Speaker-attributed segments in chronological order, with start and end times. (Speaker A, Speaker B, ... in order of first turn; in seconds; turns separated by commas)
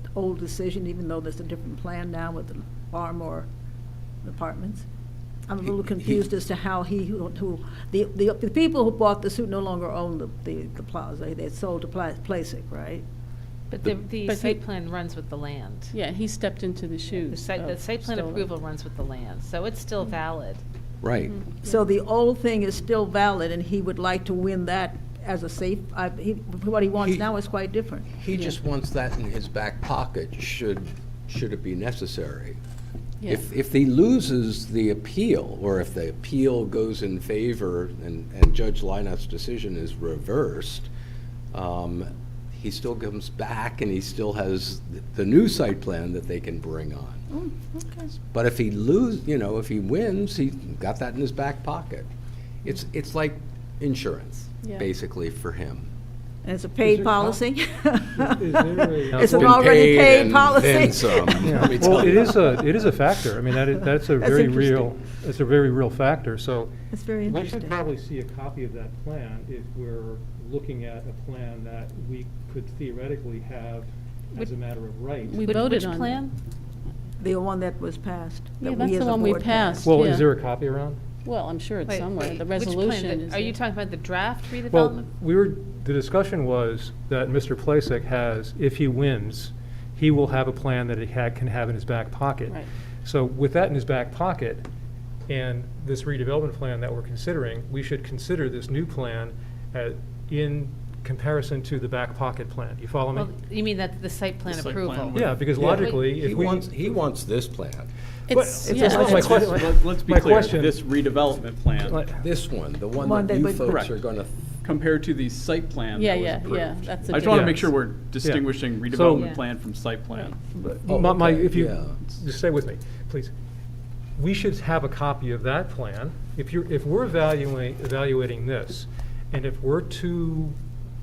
Speaker A: 0.1-3.5, Speaker A: 4.2-4.8, Speaker A: 5.5-13.0, Speaker B: 13.7-15.9, Speaker C: 14.3-14.6, Speaker C: 15.9-18.5, Speaker B: 17.2-20.6, Speaker D: 21.0-21.4, Speaker A: 21.6-28.2, Speaker D: 27.0-27.2, Speaker D: 28.2-32.6, Speaker D: 33.3-40.9, Speaker D: 41.5-47.3, Speaker A: 47.3-48.1, Speaker D: 48.3-52.1, Speaker D: 52.6-55.9, Speaker A: 56.4-62.1, Speaker E: 56.8-57.4, Speaker E: 58.1-59.6, Speaker D: 59.2-62.4, Speaker E: 61.4-66.7, Speaker A: 64.2-64.9, Speaker A: 66.9-67.8, Speaker E: 67.3-75.5, Speaker C: 75.3-76.3, Speaker B: 75.4-76.3, Speaker A: 77.2-79.9, Speaker C: 78.6-80.3, Speaker E: 79.8-81.0, Speaker C: 81.2-83.6, Speaker B: 81.9-85.1, Speaker E: 84.7-94.7, Speaker E: 95.3-103.3, Speaker B: 103.1-105.2, Speaker F: 104.5-105.4, Speaker E: 105.2-106.7, Speaker D: 105.5-107.9, Speaker C: 108.3-109.3, Speaker E: 108.3-110.8, Speaker F: 108.7-112.1, Speaker B: 108.7-109.2, Speaker E: 111.9-112.2, Speaker D: 112.2-114.4, Speaker A: 113.0-113.7, Speaker F: 113.6-114.0, Speaker F: 114.6-120.4, Speaker C: 115.9-117.7, Speaker E: 117.2-117.7, Speaker E: 118.2-119.3, Speaker B: 119.1-119.4, Speaker E: 120.5-123.3, Speaker D: 120.9-122.0, Speaker E: 124.2-130.6